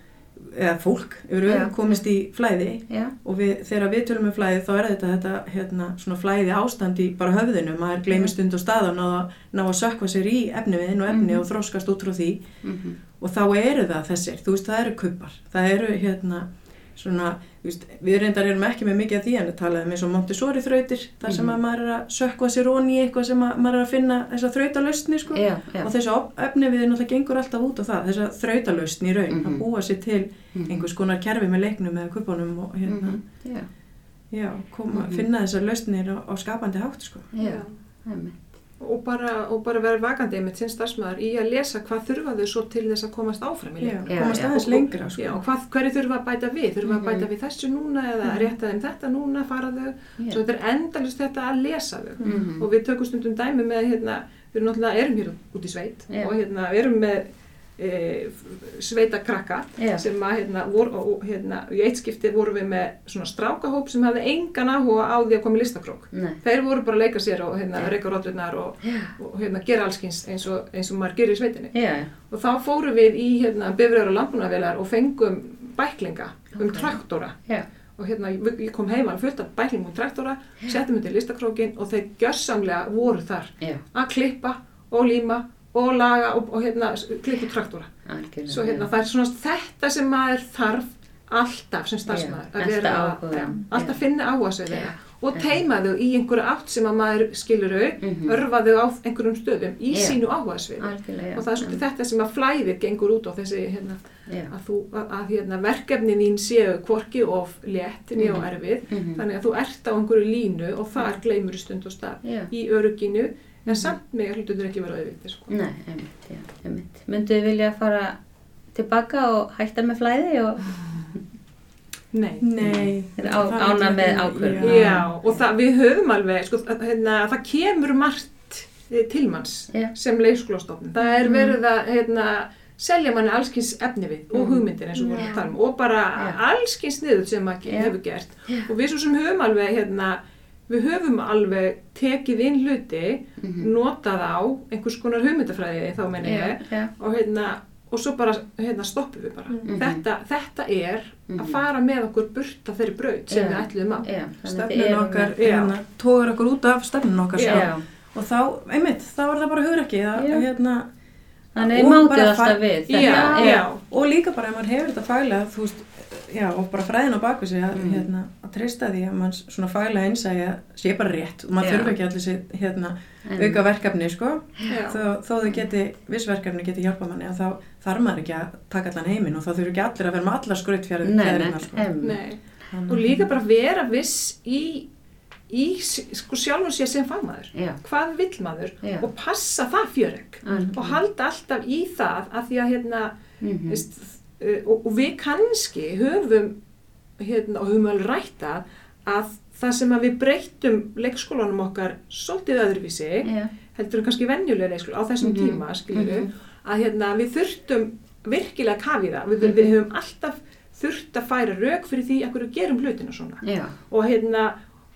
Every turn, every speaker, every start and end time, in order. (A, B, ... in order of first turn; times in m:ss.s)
0:00.4-0:12.4 A
0:01.4-0:02.0 B
0:02.9-0:03.1 B
0:11.1-0:11.4 B
0:12.6-0:13.0 B
0:13.2-0:33.2 A
0:21.2-0:21.6 B
0:25.3-0:25.9 B
0:29.3-0:29.6 B
0:30.5-0:30.8 B
0:32.9-0:33.7 B
0:34.3-0:37.3 A
0:34.9-0:35.3 B
0:37.3-0:38.4 B
0:37.4-0:37.7 C
0:38.8-1:11.7 C
0:43.8-0:45.4 A
0:44.1-0:44.6 B
0:46.8-0:47.3 B
0:52.2-0:52.7 B
0:59.8-1:00.0 B
1:06.1-1:06.4 B
1:08.8-1:09.1 B
1:11.7-1:12.1 B
1:12.3-1:17.4 C
1:16.6-1:17.6 B
1:18.0-1:55.6 C
1:28.0-1:28.9 B
1:32.1-1:34.0 B
1:34.7-1:35.6 B
1:38.0-1:38.4 B
1:39.9-1:40.2 B
1:40.8-1:41.8 B
1:44.3-1:44.5 B
1:48.2-1:49.2 B
1:52.2-1:52.5 B
1:53.7-1:53.9 B
1:55.5-1:58.2 B
1:58.7-2:00.7 B
2:02.1-2:02.4 C
2:02.4-2:05.0 A
2:02.6-2:05.1 B
2:04.6-2:34.1 C
2:11.2-2:11.6 B
2:14.3-2:15.3 B
2:14.9-2:15.3 A
2:17.7-2:17.9 B
2:23.4-2:23.7 B
2:26.2-2:26.9 B
2:29.7-2:30.0 B
2:31.3-2:31.6 B
2:33.3-2:35.4 B
2:34.4-2:40.9 A
2:35.4-2:35.7 C
2:37.4-2:37.6 C
2:37.4-2:37.8 B
2:40.2-2:40.4 B
2:41.6-2:43.6 B
2:41.6-3:01.9 A
2:42.9-2:43.8 C
2:47.7-2:48.1 B
2:51.6-2:52.0 B
2:53.3-2:53.6 B
2:54.7-2:55.0 C
3:01.0-3:02.2 B
3:02.0-3:04.9 C
3:02.7-3:03.2 A
3:05.5-3:16.6 C
3:07.5-3:07.8 B
3:10.4-3:11.0 B
3:10.5-3:10.8 A
3:13.4-3:13.8 B
3:17.2-3:34.6 C
3:23.2-3:23.5 B
3:25.2-3:26.3 B
3:29.4-3:29.7 B
3:33.4-3:33.7 B